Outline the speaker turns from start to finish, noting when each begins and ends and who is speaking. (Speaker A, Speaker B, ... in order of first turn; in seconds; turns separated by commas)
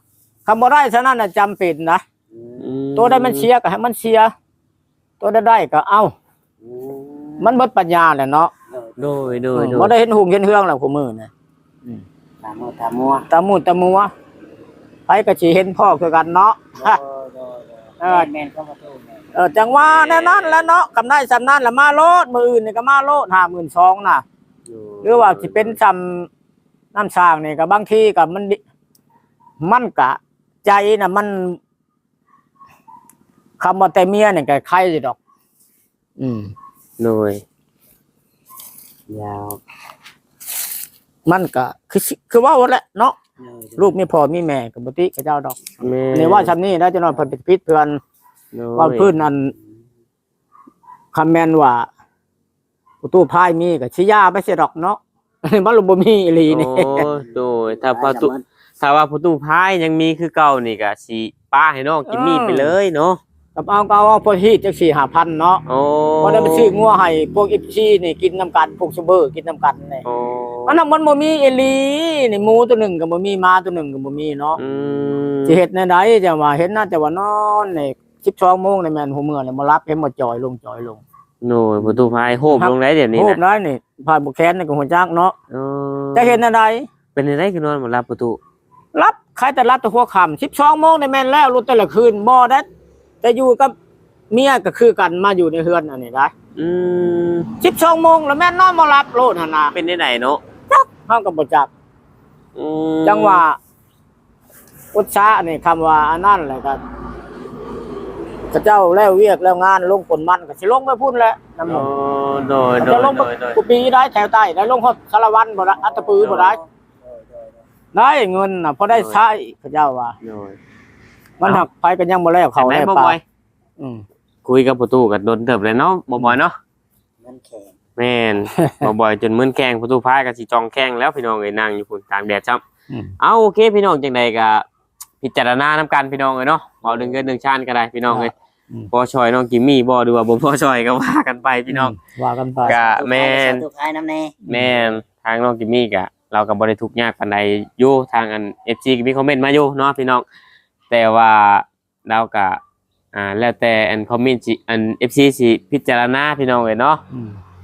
Speaker A: 0.5-2.0, Speaker B: 2.3-2.8, Speaker C: 2.6-3.5, Speaker A: 3.0-4.3, Speaker A: 5.2-6.1, Speaker B: 6.6-7.5, Speaker A: 7.4-8.5, Speaker B: 8.7-9.4, Speaker C: 9.0-9.9, Speaker A: 9.6-11.3, Speaker B: 12.4-13.3, Speaker A: 13.3-14.1, Speaker A: 15.1-17.0, Speaker B: 16.8-19.2, Speaker A: 18.0-18.3, Speaker A: 19.4-24.2, Speaker C: 19.9-20.7, Speaker C: 24.7-25.8, Speaker A: 25.0-26.3, Speaker A: 26.9-28.6, Speaker A: 29.6-31.6, Speaker A: 33.6-35.2, Speaker A: 36.2-36.5, Speaker C: 37.0-37.4, Speaker B: 39.1-39.6, Speaker A: 41.3-43.2, Speaker B: 43.4-43.9, Speaker A: 43.8-48.0, Speaker C: 45.8-46.5, Speaker C: 48.5-49.1, Speaker A: 48.8-49.5, Speaker A: 51.1-51.9, Speaker A: 53.0-57.0, Speaker C: 56.5-63.2, Speaker B: 57.0-57.3, Speaker B: 57.8-58.4, Speaker A: 62.1-62.8, Speaker A: 63.6-65.6, Speaker C: 65.7-66.8, Speaker A: 66.2-70.0, Speaker C: 70.0-70.8, Speaker A: 70.7-74.6, Speaker C: 74.6-75.6, Speaker A: 75.5-81.0, Speaker C: 81.4-83.4, Speaker A: 82.5-85.3, Speaker C: 85.5-86.4, Speaker A: 86.2-86.9, Speaker C: 87.2-88.4, Speaker A: 88.9-92.7, Speaker A: 93.2-93.7, Speaker A: 94.3-96.3, Speaker C: 96.6-97.5, Speaker A: 97.6-99.8, Speaker C: 99.7-100.4, Speaker A: 100.7-101.7, Speaker C: 102.6-103.4, Speaker A: 103.0-103.6, Speaker A: 104.9-106.8, Speaker A: 108.5-111.9, Speaker C: 111.7-113.6, Speaker A: 112.8-116.6, Speaker B: 115.8-117.6, Speaker C: 116.2-116.6, Speaker A: 117.9-120.2, Speaker C: 118.9-119.2, Speaker C: 120.2-120.6, Speaker A: 121.4-123.2, Speaker C: 122.6-123.2, Speaker C: 124.5-126.6, Speaker B: 127.2-127.8, Speaker C: 128.0-132.6, Speaker A: 128.6-128.8, Speaker C: 133.2-134.7, Speaker C: 135.2-138.3, Speaker B: 136.8-137.2, Speaker A: 138.1-138.9, Speaker C: 138.9-141.9, Speaker A: 141.7-142.8, Speaker B: 142.6-144.4, Speaker C: 142.7-143.7, Speaker C: 144.5-150.2, Speaker C: 150.9-152.6, Speaker C: 153.1-157.0, Speaker A: 157.1-157.4